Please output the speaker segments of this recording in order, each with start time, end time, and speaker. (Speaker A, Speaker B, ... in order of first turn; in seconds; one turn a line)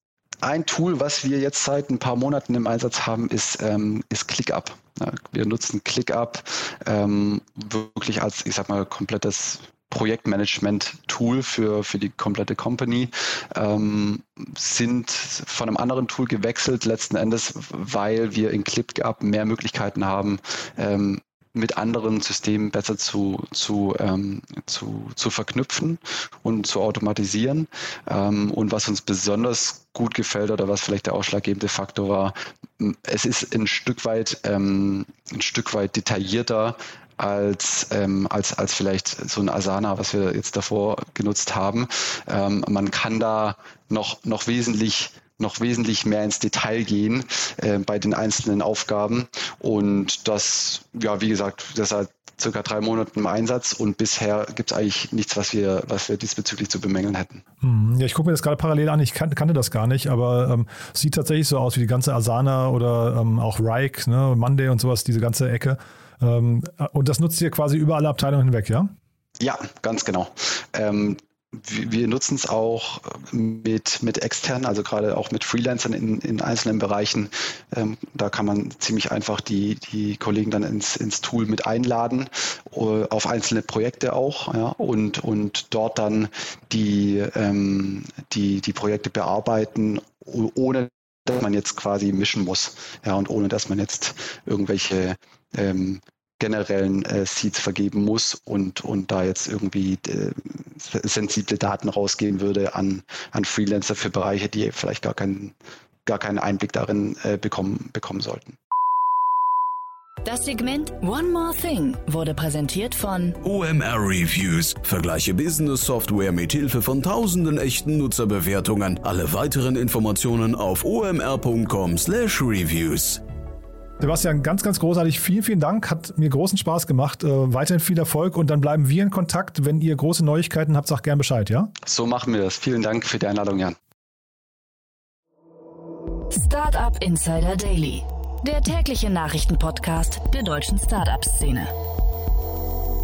Speaker A: 0.4-57.4
Speaker B: 57.6-68.9
Speaker A: 69.4-105.5
Speaker A: 106.0-108.6
Speaker C: 110.2-113.4
Speaker D: 113.4-123.2
Speaker B: 124.0-131.7
Speaker A: 131.8-133.8
Speaker C: 136.3-141.7